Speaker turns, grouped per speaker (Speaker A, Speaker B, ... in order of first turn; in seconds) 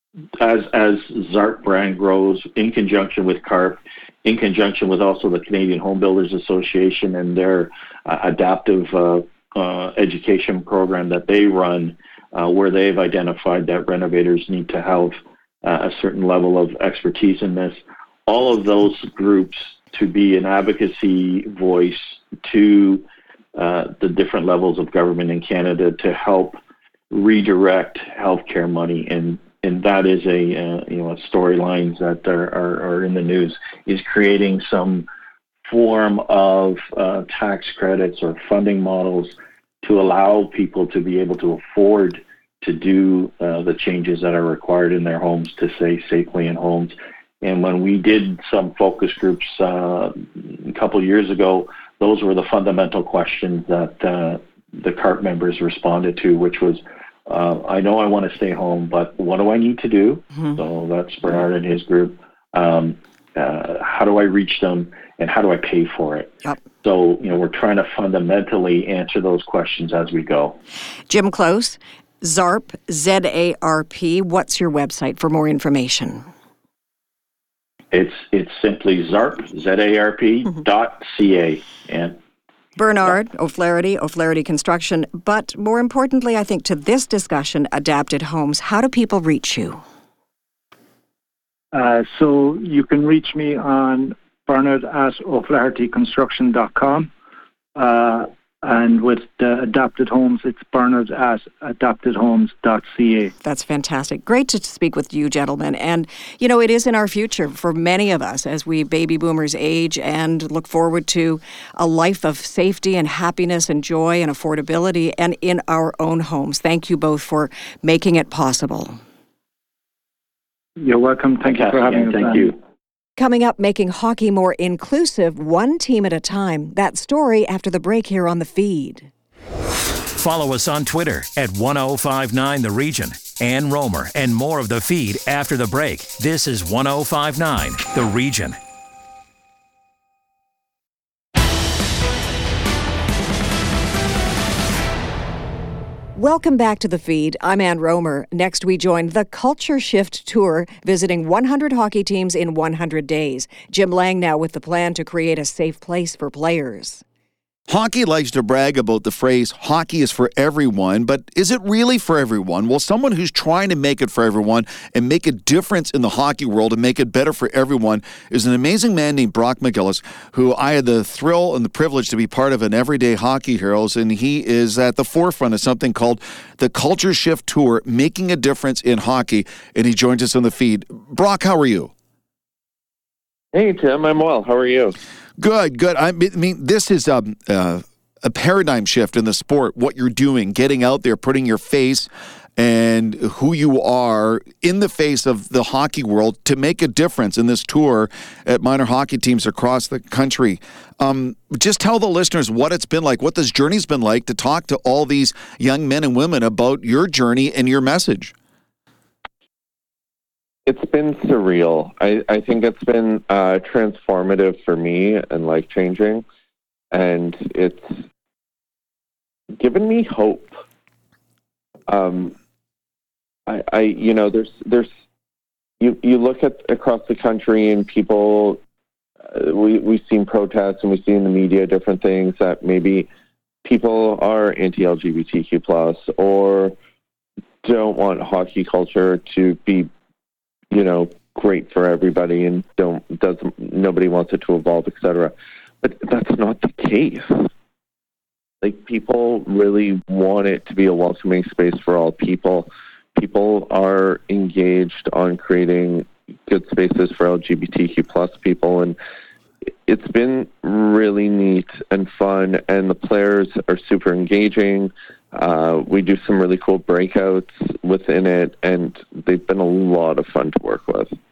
Speaker A: 0.4-26.6, 27.1-35.1, 35.6-70.6, 77.9-82.2, 121.5-122.5
Speaker B: 71.1-76.2, 82.8-89.8, 103.4-119.0, 123.2-129.1, 146.1-157.0
Speaker C: 91.7-97.1, 97.8-103.3, 120.8-122.5
Speaker D: 130.1-138.6
Speaker E: 157.7-181.9, 185.4-208.3
Speaker F: 183.5-185.0, 210.7-216.2, 216.9-217.9, 219.6-220.6, 221.9-222.3, 223.5-224.9, 225.8-228.6, 229.3-233.1, 233.6-236.7, 237.6-239.9, 240.7-247.5, 248.6-259.0, 259.9-271.1